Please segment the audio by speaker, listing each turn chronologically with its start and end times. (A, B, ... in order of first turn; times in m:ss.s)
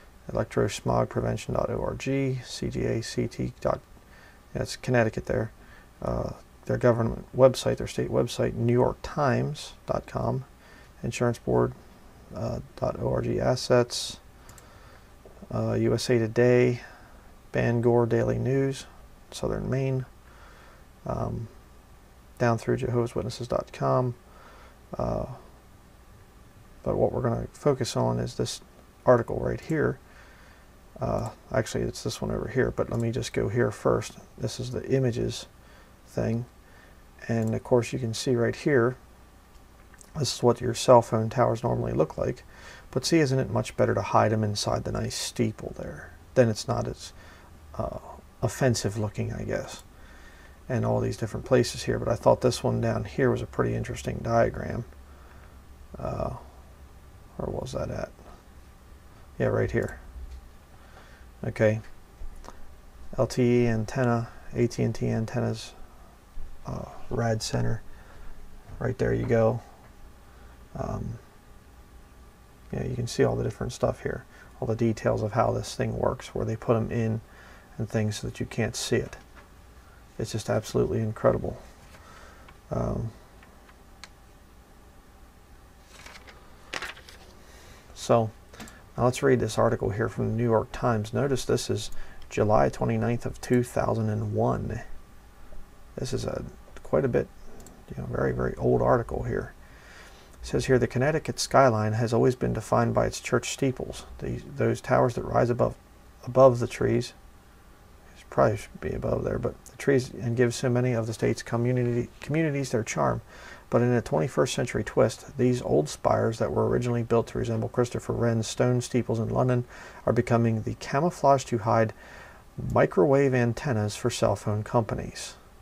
0:00.3-0:03.8 A
0:04.5-0:10.4 A
0:11.0-0:11.7 A
0:12.3-0:14.2 A
0:15.5-0:16.8 A
0:17.5-0:20.1 A
0:21.0-0:21.5 A
0:22.4-0:24.2 A
0:24.9-0:25.4 A
0:26.8-0:30.0 A
0:31.0-0:35.5 A
0:36.1-0:36.5 A
0:37.2-0:39.0 A
0:40.2-0:47.1 A
0:47.7-0:49.8 A
0:50.7-0:54.9 A
0:56.0-0:56.4 A
0:57.4-0:58.1 A
0:59.4-1:00.0 A
1:01.4-1:01.8 A
1:03.1-1:05.8 A
1:06.6-1:07.8 A
1:08.8-1:09.6 A
1:10.7-1:11.2 A
1:12.7-1:17.2 A
1:17.8-1:19.2 A
1:20.2-1:21.6 A
1:22.7-1:23.1 A
1:27.9-1:28.3 A
1:29.0-1:34.8 A
1:36.0-1:37.3 A
1:37.9-1:39.5 A
1:40.4-1:47.1 A
1:48.1-2:01.9 A
2:02.6-2:05.4 A